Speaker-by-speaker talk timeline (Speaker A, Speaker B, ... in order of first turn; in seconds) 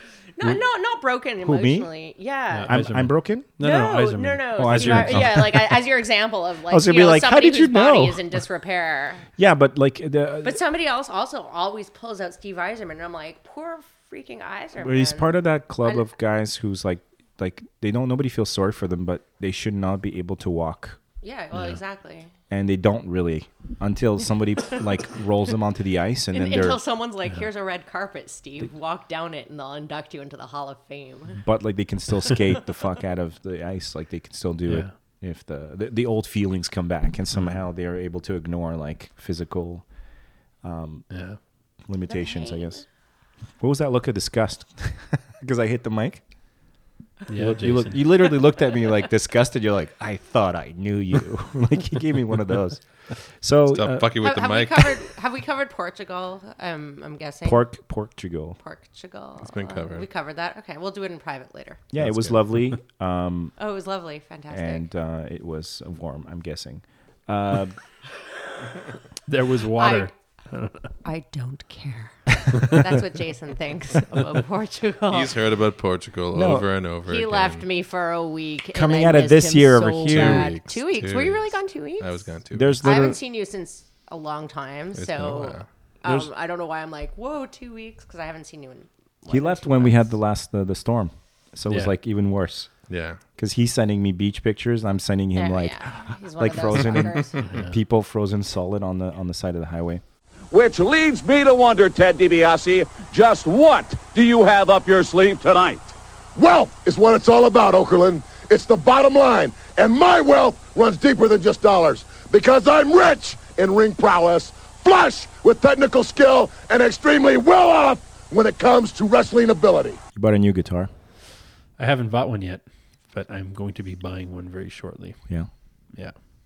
Speaker A: 0.4-2.9, 3.6-9.3, 10.4-16.1, 21.2-22.3, 26.3-31.4, 42.1-42.9, 54.2-57.6, 58.6-61.9, 63.6-64.9, 69.8-70.1, 71.0-75.4, 77.0-90.2, 95.4-97.5
Speaker B: 1.4-1.9, 2.6-3.5, 4.5-5.8, 6.7-8.4, 9.4-10.6, 14.8-21.0, 22.5-26.8, 31.4-39.9, 40.6-41.3, 41.9-42.8, 43.6-46.2, 47.3-54.1, 57.5-58.6, 61.9-63.5, 64.5-67.8, 76.3-76.7, 78.7-80.6, 82.5-83.2, 89.3-92.7, 93.3-100.0, 120.2-120.9
Speaker C: 2.5-5.4, 34.7-34.9, 37.3-37.6, 41.1-41.4, 47.3-48.1, 69.3-70.9, 72.6-72.8, 91.7-91.9, 97.4-97.8, 121.8-125.4
Speaker D: 53.7-55.1, 59.4-60.1, 62.0-62.3, 75.1-77.7, 80.0-82.8, 84.9-85.7, 92.9-93.2
Speaker E: 100.5-105.9
Speaker F: 106.4-120.0